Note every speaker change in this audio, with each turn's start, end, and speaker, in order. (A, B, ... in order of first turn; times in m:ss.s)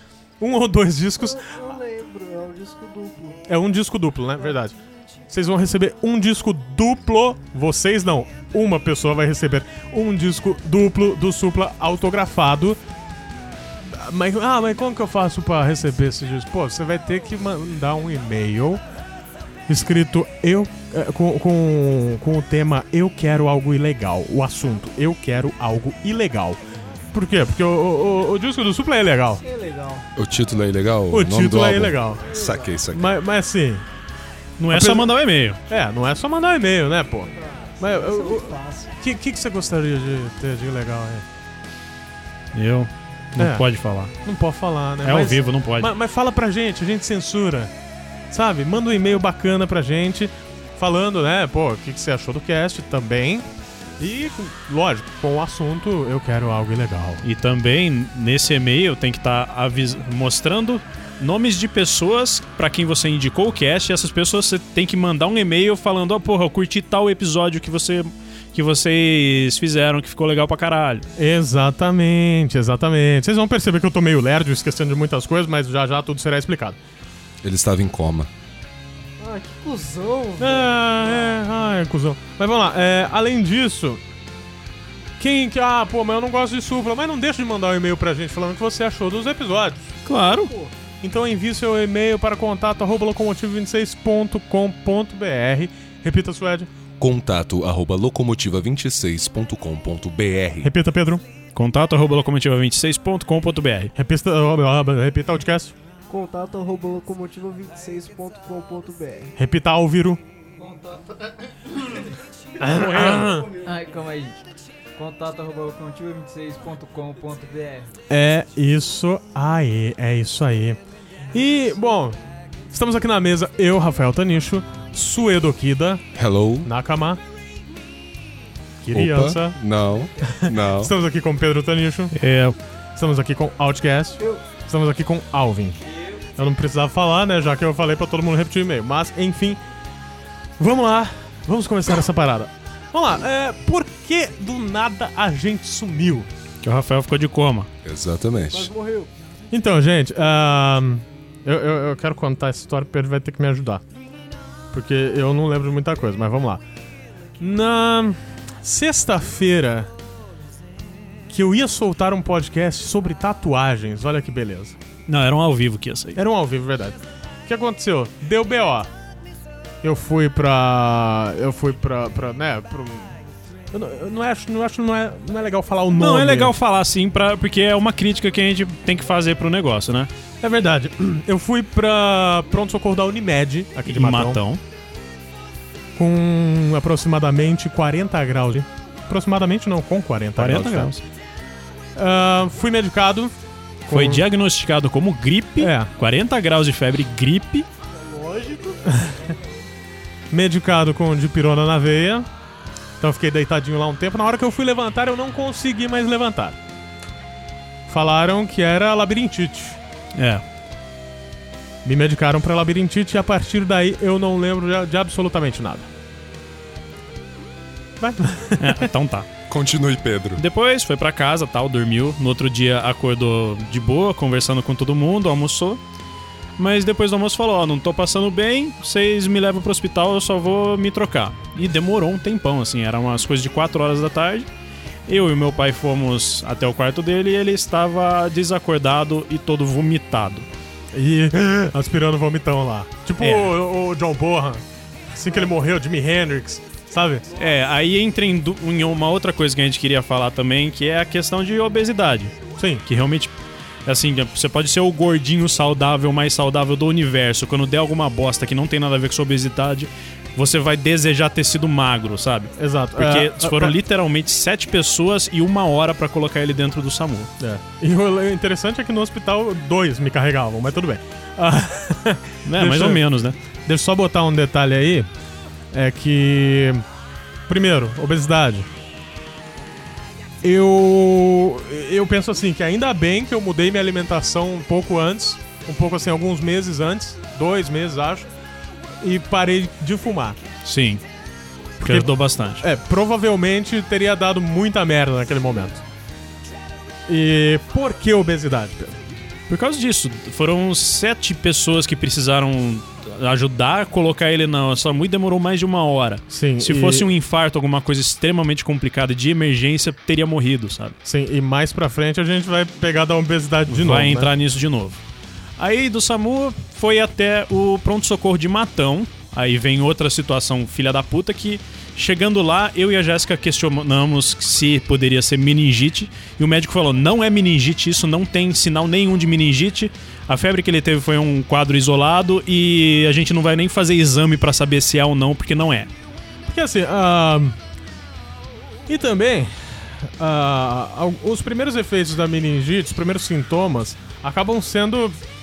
0:00.4-0:01.5 A
0:01.2-0:03.4 B
0:03.5-0:04.8 A
0:05.3-0:12.8 A
0:13.9-0:18.8 A
0:19.7-0:26.6 A
0:27.1-0:29.4 A
0:29.4-0:30.1 B
0:30.2-0:33.1 C
0:31.1-0:32.3 A
0:32.3-0:32.8 B
0:32.9-0:33.8 A
0:34.6-0:35.6 D
0:34.7-0:35.1 A
0:35.7-0:41.2 A
0:37.4-0:38.9 B
0:42.5-0:44.1 D
0:43.4-0:43.6 A
0:44.2-0:47.7 A
0:45.0-0:45.9 D
0:48.3-0:53.5 A
0:54.0-0:57.2 A
0:57.2-1:11.0 D
1:11.2-1:16.8 A
1:17.4-1:18.3 C
1:19.2-1:21.7 B
1:20.4-1:24.0 A
1:25.2-1:29.8 A
1:30.0-1:30.5 D
1:30.1-1:30.7 B
1:31.0-1:36.7 A
1:37.0-1:40.7 C
1:40.6-1:41.2 A
1:41.6-1:43.9 D
1:44.0-1:45.7 A
1:46.1-1:49.3 B
1:49.4-1:50.2 A
1:50.6-1:52.1 E
1:52.6-1:53.5 A
1:52.6-1:54.4 E
1:55.0-1:57.9 E
1:58.1-2:00.8 A
2:01.3-2:02.2 A
2:02.7-2:06.0 A
2:06.2-2:06.7 C
2:06.6-2:07.2 A
2:08.8-2:09.6 A
2:08.9-2:10.9 C
2:10.2-2:12.1 A
2:12.1-2:12.6 D
2:13.0-2:15.8 A
2:15.9-2:16.2 E
2:16.4-2:19.6 A
2:20.6-2:26.3 A
2:26.6-2:27.7 D
2:27.8-2:28.7 C
2:28.5-2:29.1 B
2:29.5-2:33.8 A
2:34.7-2:36.6 A
2:37.4-2:39.9 A
2:41.3-2:44.8 A
2:45.1-2:46.2 D
2:46.2-2:48.9 A
2:49.8-2:53.2 A
2:53.7-2:56.5 A
2:56.0-3:00.1 D
3:00.4-3:04.4 A
3:03.8-3:04.6 D
3:06.0-3:10.9 A
3:10.4-3:11.0 D
3:12.0-3:13.3 A
3:13.9-3:14.2 A
3:13.9-3:17.7 D
3:15.6-3:15.9 A
3:17.9-3:19.4 B
3:20.3-3:22.3 A
3:23.0-3:26.6 A
3:27.9-3:29.8 A
3:30.2-3:30.4 D
3:31.8-3:35.9 A
3:38.0-3:38.9 A
3:38.6-3:39.3 D
3:39.5-3:40.4 C
3:40.4-3:45.8 D
3:46.6-3:54.5 D
3:55.1-4:00.5 D
4:00.9-4:07.3 A
4:03.2-4:03.5 D
4:07.4-4:13.3 D
4:12.6-4:12.8 A
4:13.8-4:27.3 D
4:22.6-4:23.8 A
4:27.4-4:33.0 A
4:32.4-4:33.4 D
4:33.7-4:35.1 A
4:35.7-4:36.8 A
4:37.5-4:38.7 A
4:40.4-4:48.3 A
4:49.0-4:50.4 A
4:50.6-4:51.0 D
4:51.8-4:52.6 D
4:51.8-4:55.8 A
4:57.1-4:59.1 A
4:59.5-5:11.0 D
5:06.3-5:07.1 A
5:11.0-5:14.3 A
5:13.7-5:15.0 D
5:15.6-5:35.9 D
5:36.5-5:37.6 A
5:38.9-5:45.2 A